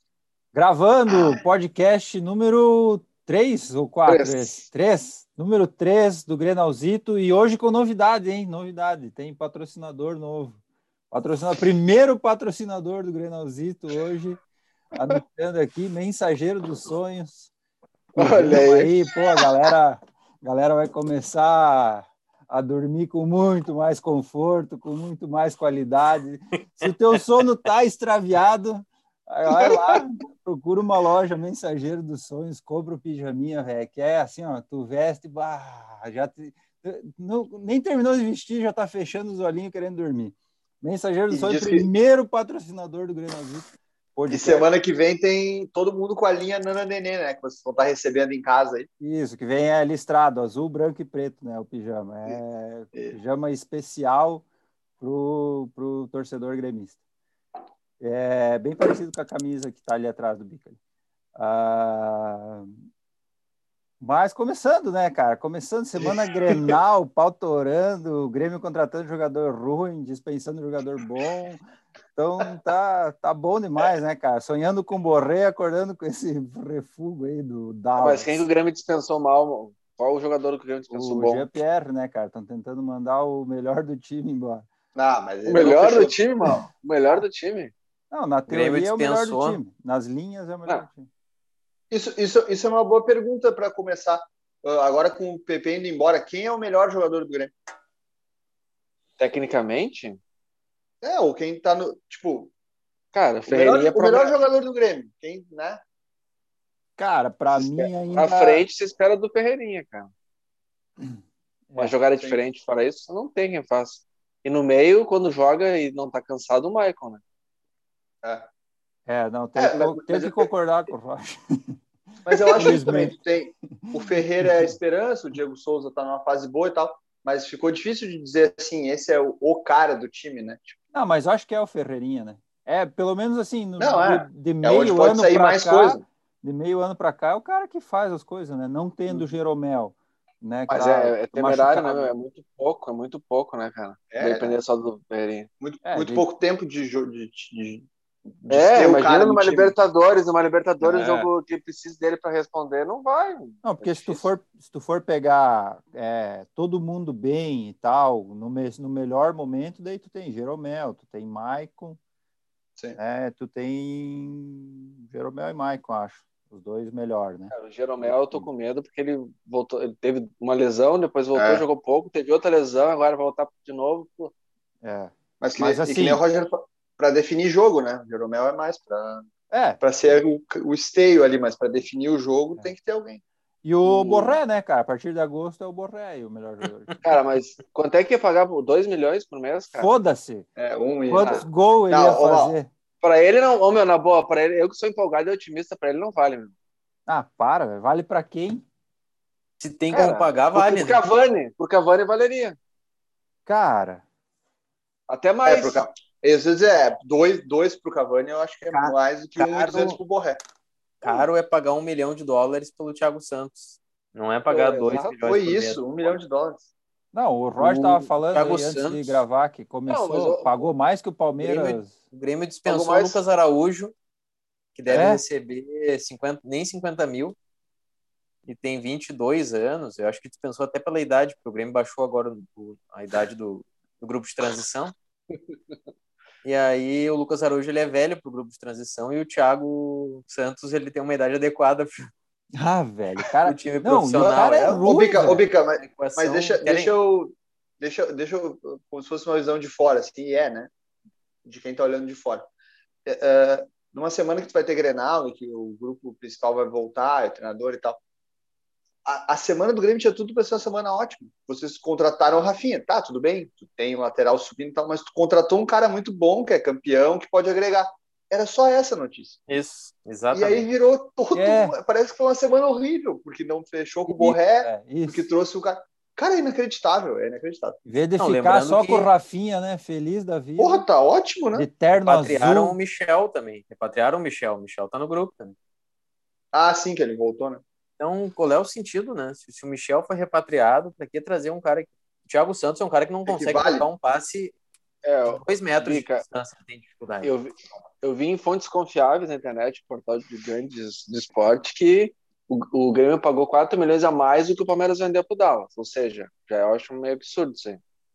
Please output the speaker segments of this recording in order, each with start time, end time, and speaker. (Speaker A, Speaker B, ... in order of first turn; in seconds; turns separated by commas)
Speaker A: 0.5-10.6, Speaker B: 4.1-4.6, Speaker A: 11.1-14.4, Speaker A: 14.9-17.5, Speaker A: 18.1-44.7, Speaker B: 18.1-19.1, Speaker C: 41.3-41.9, Speaker C: 44.3-48.9, Speaker A: 49.0-54.4, Speaker A: 55.0-57.0, Speaker A: 58.0-60.8, Speaker A: 61.3-62.8, Speaker A: 64.0-71.6, Speaker A: 72.1-78.4, Speaker B: 78.0-81.5, Speaker A: 80.9-84.7, Speaker C: 84.9-86.2, Speaker B: 85.4-87.7, Speaker A: 88.1-91.1, Speaker D: 88.5-89.6, Speaker C: 91.9-97.5, Speaker B: 99.2-100.2, Speaker C: 101.0-102.5, Speaker B: 103.1-104.3, Speaker C: 103.5-105.8, Speaker A: 107.0-108.6, Speaker B: 107.5-110.1, Speaker B: 111.8-117.2, Speaker C: 118.2-118.5, Speaker A: 119.1-121.8, Speaker C: 119.5-120.5, Speaker C: 122.2-130.7, Speaker A: 122.3-123.2, Speaker A: 124.4-124.7, Speaker A: 130.9-142.1, Speaker C: 133.8-136.0, Speaker B: 140.7-145.5, Speaker C: 144.1-144.6, Speaker C: 145.6-149.7, Speaker A: 145.8-146.2, Speaker B: 148.5-154.3, Speaker A: 150.8-151.3, Speaker A: 153.6-162.0, Speaker A: 162.9-168.5, Speaker B: 167.5-174.3, Speaker C: 171.3-171.6, Speaker A: 174.8-176.2, Speaker C: 175.4-179.3, Speaker A: 179.5-179.8, Speaker C: 179.8-183.2, Speaker A: 183.6-187.0, Speaker B: 183.8-184.4, Speaker B: 187.0-189.9, Speaker A: 189.7-190.5, Speaker C: 190.6-192.5, Speaker A: 191.1-192.7, Speaker B: 191.2-191.4, Speaker B: 193.0-196.5, Speaker A: 197.1-198.6, Speaker D: 199.6-201.0, Speaker B: 199.9-202.6, Speaker A: 203.4-204.0, Speaker B: 205.1-205.8, Speaker C: 205.4-210.4, Speaker D: 208.7-210.0, Speaker D: 211.0-216.1, Speaker B: 214.5-215.3, Speaker C: 215.2-216.7, Speaker A: 217.1-221.9, Speaker D: 217.6-219.2, Speaker B: 219.9-220.7, Speaker B: 221.4-221.8, Speaker D: 222.1-223.9, Speaker C: 222.7-223.1, Speaker B: 222.7-223.1, Speaker D: 224.8-227.3, Speaker A: 224.9-225.2, Speaker D: 228.4-234.9, Speaker D: 236.4-242.1, Speaker A: 242.6-245.4, Speaker D: 243.4-245.0, Speaker C: 244.8-250.7, Speaker D: 245.8-246.9, Speaker C: 251.4-252.5, Speaker C: 253.1-258.0, Speaker C: 259.0-269.4, Speaker D: 269.5-270.6, Speaker C: 270.3-277.8, Speaker A: 271.3-271.8, Speaker A: 274.1-275.2, Speaker A: 277.9-280.8, Speaker D: 278.2-279.1, Speaker C: 280.6-281.7, Speaker A: 281.5-282.8, Speaker D: 282.0-285.5, Speaker C: 286.5-287.6, Speaker D: 288.0-294.5, Speaker C: 293.3-293.9, Speaker B: 295.0-296.2, Speaker D: 295.2-297.3, Speaker B: 297.2-307.8